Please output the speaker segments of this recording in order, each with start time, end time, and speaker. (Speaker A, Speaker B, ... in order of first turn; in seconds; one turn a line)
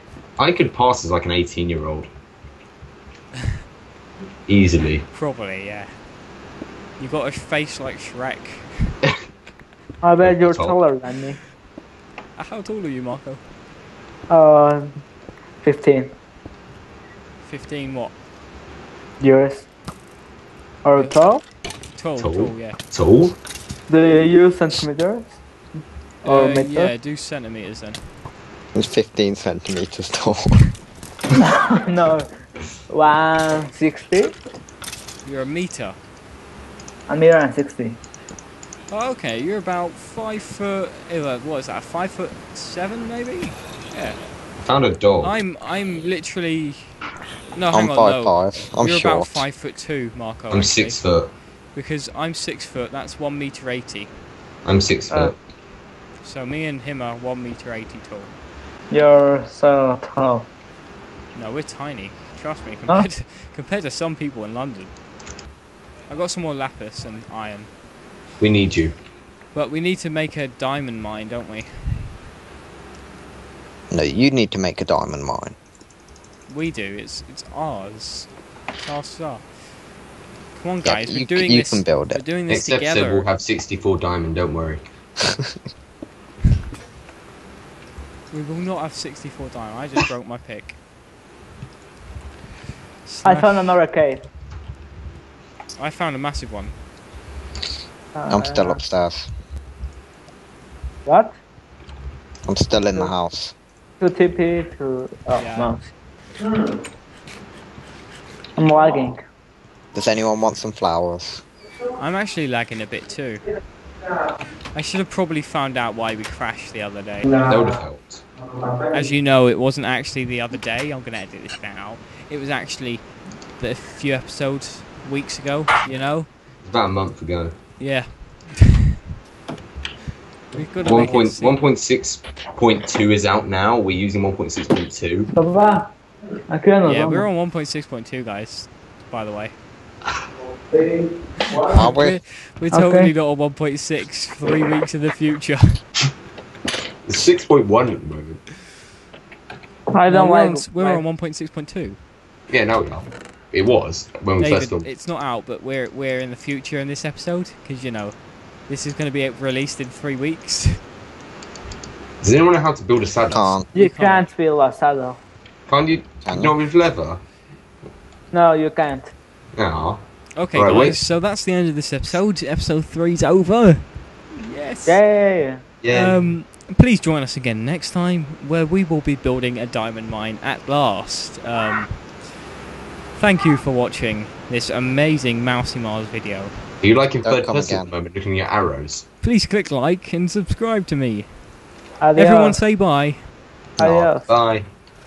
Speaker A: 0.4-2.1
Speaker A: 4.5-5.0
Speaker B: 5.1-5.9
Speaker B: 7.0-8.7
Speaker C: 10.0-11.4
Speaker A: 10.2-10.8
Speaker B: 12.4-13.4
Speaker C: 14.3-14.9
Speaker C: 15.6-16.1
Speaker B: 17.4-18.1
Speaker C: 19.2-19.7
Speaker C: 20.8-21.4
Speaker B: 21.9-22.8
Speaker A: 22.2-23.4
Speaker C: 23.9-25.4
Speaker C: 26.2-26.9
Speaker B: 26.2-28.1
Speaker D: 28.8-30.6
Speaker C: 31.4-32.3
Speaker C: 32.9-34.4
Speaker B: 35.2-36.0
Speaker C: 37.1-38.0
Speaker B: 38.9-44.2
Speaker A: 44.6-45.4
Speaker B: 45.2-46.9
Speaker B: 47.5-51.0
Speaker D: 47.7-49.5
Speaker A: 50.5-51.3
Speaker B: 51.7-54.1
Speaker A: 54.6-55.4
Speaker B: 56.2-58.3
Speaker C: 58.9-60.5
Speaker B: 61.3-64.9
Speaker B: 66.1-67.7
Speaker A: 68.4-69.0
Speaker B: 69.5-72.1
Speaker D: 73.9-75.6
Speaker B: 76.5-79.5
Speaker B: 80.5-83.3
Speaker D: 80.8-82.2
Speaker A: 82.5-84.8
Speaker B: 88.3-90.8
Speaker B: 93.0-93.8
Speaker C: 93.2-94.2
Speaker B: 95.8-96.8
Speaker C: 98.1-98.8
Speaker D: 98.3-99.3
Speaker C: 101.0-101.4
Speaker D: 102.5-103.5
Speaker C: 104.0-105.9
Speaker B: 105.3-105.7
Speaker C: 108.6-109.2
Speaker D: 109.9-111.4
Speaker B: 112.0-113.4
Speaker B: 114.7-117.3
Speaker C: 117.2-117.8
Speaker A: 117.5-118.2
Speaker C: 118.6-119.1
Speaker B: 118.9-126.3
Speaker A: 126.6-127.5
Speaker B: 127.8-128.8
Speaker B: 130.5-131.7
Speaker A: 130.8-135.3
Speaker C: 135.3-135.9
Speaker C: 136.5-137.3
Speaker B: 136.8-139.6
Speaker B: 141.5-145.8
Speaker D: 141.7-142.2
Speaker C: 142.7-143.1
Speaker A: 147.1-148.4
Speaker C: 149.9-151.0
Speaker B: 150.1-152.0
Speaker A: 152.5-154.9
Speaker B: 154.4-158.2
Speaker B: 158.7-160.8
Speaker A: 162.2-163.6
Speaker D: 163.3-163.7
Speaker B: 163.7-164.3
Speaker C: 163.7-165.2
Speaker A: 165.7-167.2
Speaker D: 166.3-166.6
Speaker C: 168.3-169.1
Speaker A: 169.5-171.0
Speaker B: 170.4-175.0
Speaker C: 174.9-175.6
Speaker A: 175.8-176.3
Speaker B: 175.9-182.2
Speaker B: 183.1-186.5
Speaker A: 186.8-189.1
Speaker D: 187.2-187.9
Speaker B: 189.2-191.3
Speaker C: 192.0-192.6
Speaker B: 192.2-193.3
Speaker A: 193.8-194.7
Speaker C: 193.8-194.3